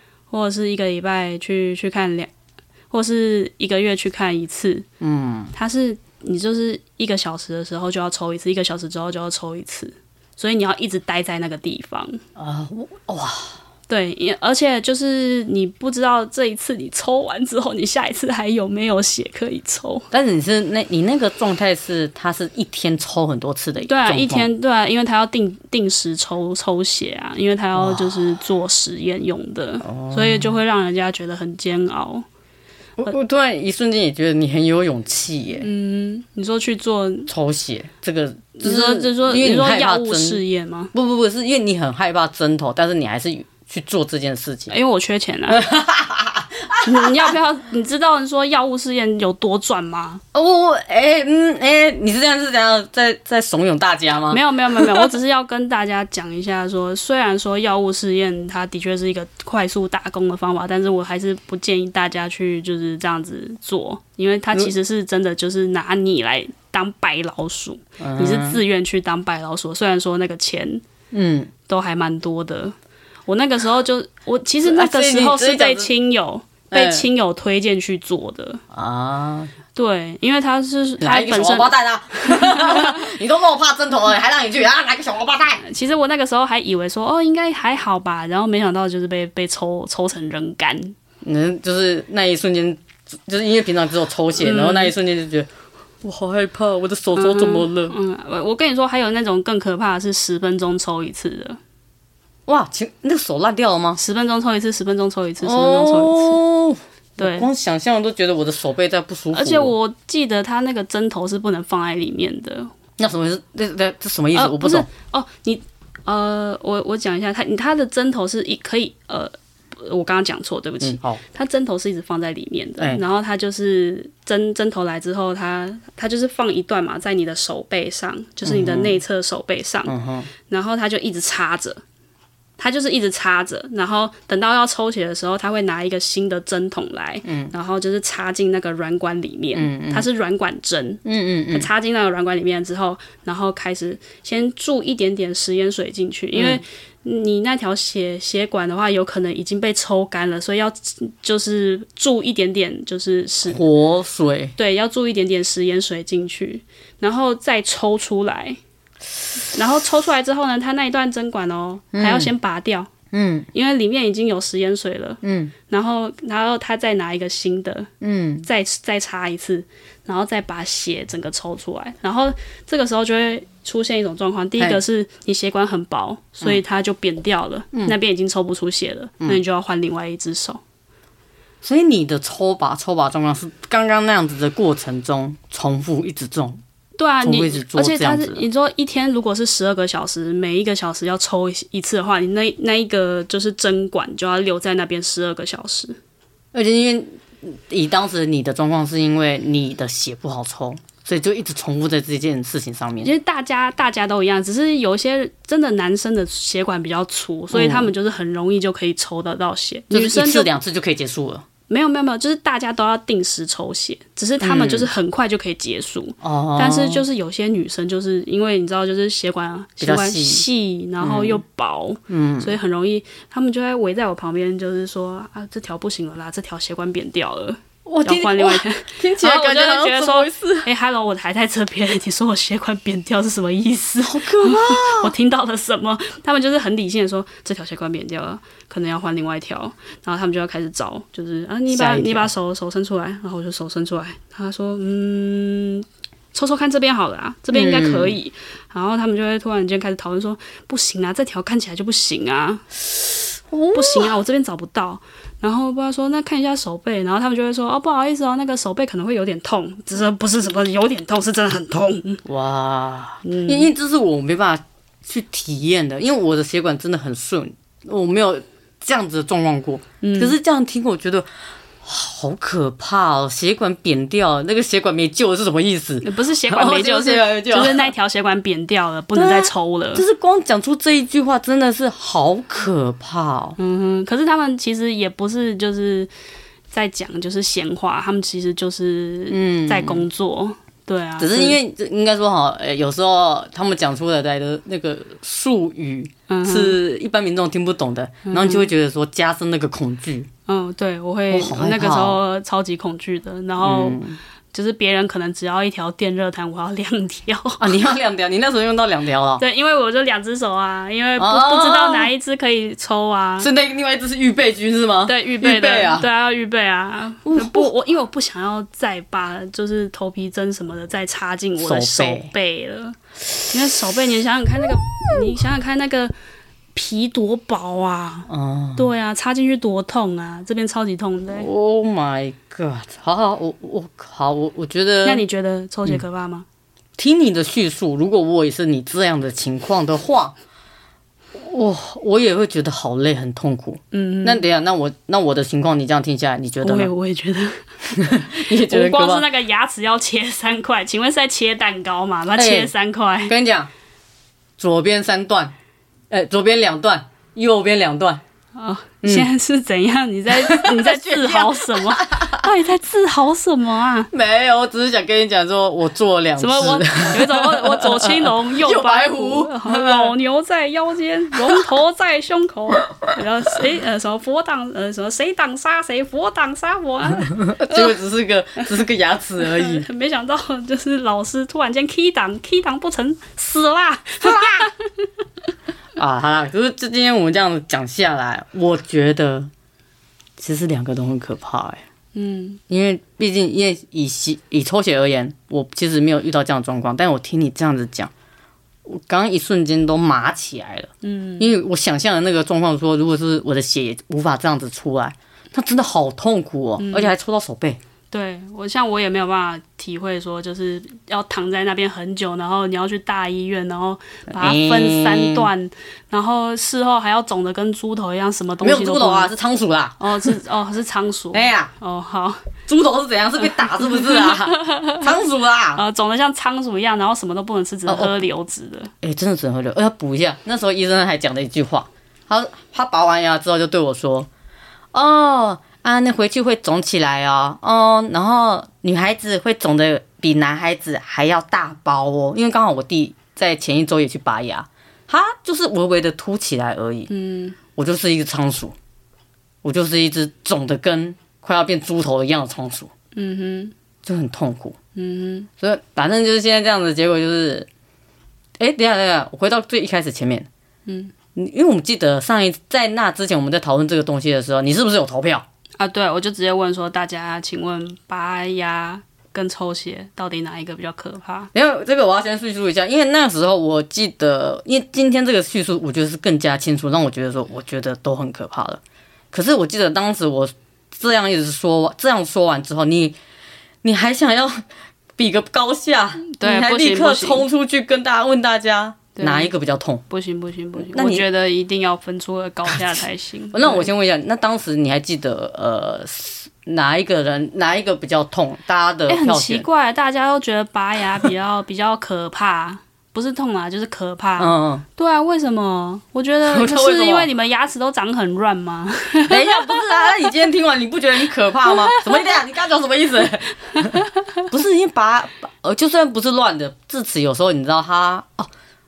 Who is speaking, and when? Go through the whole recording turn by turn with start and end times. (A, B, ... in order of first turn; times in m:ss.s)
0:00.3-0:02.3 A
0:02.9-0:04.9 A
0:05.0-0:05.5 B
0:05.5-0:12.2 A
0:12.4-0:13.6 B
0:13.9-0:20.1 A
0:20.1-0:24.5 B
0:23.8-0:32.2 A
0:27.8-0:28.4 B
0:29.8-0:30.6 B
0:33.0-0:35.7 B
0:35.6-0:37.3 A
0:37.3-0:40.4 B
0:38.6-0:40.9 A
0:40.9-0:44.7 B
0:44.7-0:45.6 A
0:45.5-0:47.3 B
0:46.8-0:50.2 A
0:50.3-0:55.1 B
0:54.3-1:10.8 A
1:08.0-1:08.6 B
1:11.1-1:11.5 B
1:11.7-1:12.8 A
1:13.3-1:18.6 A
1:14.6-1:15.9 B
1:16.7-1:17.1 B
1:18.7-1:19.5 B
1:19.8-1:23.1 A
1:21.0-1:25.6 B
1:25.6-1:31.0 A
1:31.2-1:35.5 B
1:34.4-1:34.9 A
1:36.0-1:38.0 B
1:37.2-1:41.6 A
1:42.5-1:44.0 B
1:44.0-1:46.4 A
1:45.4-1:49.7 B
1:47.2-1:47.5 A
1:49.3-1:52.7 A
1:53.0-1:54.9 B
1:54.3-2:09.9 A
2:00.8-2:01.2 B
2:08.4-2:09.0 B
2:09.9-2:10.3 B
2:10.5-2:11.8 A
2:12.6-2:33.6 A
2:17.2-2:17.5 B
2:19.6-2:20.1 B
2:21.0-2:21.7 B
2:26.4-2:26.6 B
2:33.5-2:34.5 B
2:34.6-2:38.6 A
2:39.5-2:42.9 A
2:41.9-2:42.3 B
2:43.1-2:43.5 B
2:43.5-2:47.9 A
2:45.2-2:45.5 B
2:48.0-2:48.5 B
2:48.4-3:00.6 A
3:01.6-3:06.6 B
3:07.0-3:16.0 A
3:07.2-3:08.4 B
3:16.5-3:23.1 B
3:23.0-3:30.6 A
3:27.5-3:27.9 B
3:29.9-3:31.5 B
3:31.7-4:12.7 A
3:34.4-3:34.9 B
3:36.2-3:37.1 B
3:39.8-3:40.4 B
3:41.0-3:41.4 B
3:42.1-3:42.6 B
3:47.9-3:50.7 B
3:54.0-3:55.1 B
4:01.7-4:02.3 B
4:07.5-4:08.2 B
4:13.5-4:14.1 B
4:13.7-4:22.2 A
4:22.2-4:31.3 B
4:23.2-4:23.7 A
4:30.0-4:30.4 A
4:31.8-4:37.9 B
4:36.0-4:40.0 A
4:39.1-4:43.6 B
4:43.6-4:46.1 A
4:46.7-4:51.6 A
4:49.3-4:50.1 B
4:51.2-5:00.3 B
4:56.3-4:56.8 A
4:58.3-4:58.7 A
5:00.5-5:04.0 A
5:01.3-5:02.2 B
5:03.6-5:04.2 B
5:04.5-5:07.7 A
5:07.6-5:09.4 B
5:09.4-5:13.5 A
5:11.2-5:12.1 B
5:13.4-5:16.1 B
5:15.1-5:23.0 A
5:17.3-5:17.7 B
5:21.6-5:22.3 B
5:23.5-5:26.1 A
5:26.8-5:31.5 A
5:28.3-5:28.9 B
5:31.3-5:35.2 B
5:35.0-5:36.5 A
5:37.0-5:40.4 B
5:41.4-5:46.9 B
5:43.9-5:44.4 A
5:46.6-5:53.4 A
5:47.9-5:49.3 B
5:52.4-5:52.7 B
5:53.3-5:53.7 B
5:54.6-5:55.6 B
5:56.1-5:58.2 B
5:58.6-6:04.1 A
5:59.0-5:59.3 B
6:00.3-6:02.5 B
6:04.1-6:10.2 B
6:06.4-6:17.9 A
6:11.4-6:11.6 B
6:17.2-6:19.9 B
6:19.4-6:25.1 A
6:24.2-6:24.7 B
6:26.0-6:29.5 B
6:30.4-6:31.8 B
6:32.2-6:32.6 A
6:32.7-6:38.1 B
6:38.8-6:47.8 B
6:41.0-6:41.5 A
6:46.8-6:47.1 A
6:48.1-6:59.3 A
6:54.3-6:55.5 B
6:58.6-7:00.3 B
7:00.0-7:02.5 A
7:01.3-7:01.7 B
7:02.7-7:05.8 B
7:03.6-7:05.1 A
7:05.8-7:08.9 A
7:07.9-7:08.2 B
7:09.0-7:14.3 B
7:14.9-7:27.1 B
7:27.1-7:27.6 A
7:27.8-7:28.8 B
7:29.6-7:32.9 B
7:33.2-7:33.7 A
7:34.0-7:34.8 B
7:35.0-7:35.5 A
7:35.6-7:37.7 B
7:38.6-7:40.5 B
7:40.9-7:41.1 A
7:41.4-7:45.4 B
7:45.8-7:51.5 A
7:51.5-7:58.8 B
7:59.3-8:03.2 B
8:03.8-8:04.6 B
8:05.2-8:10.0 B
8:06.2-8:07.4 A
8:09.2-8:09.5 A
8:10.1-8:13.9 A
8:10.8-8:11.2 B
8:13.5-8:19.6 B
8:19.1-8:30.3 A
8:24.4-8:24.8 B
8:26.4-8:27.3 B
8:29.3-8:38.5 B
8:31.7-8:32.0 A
8:33.8-8:34.2 A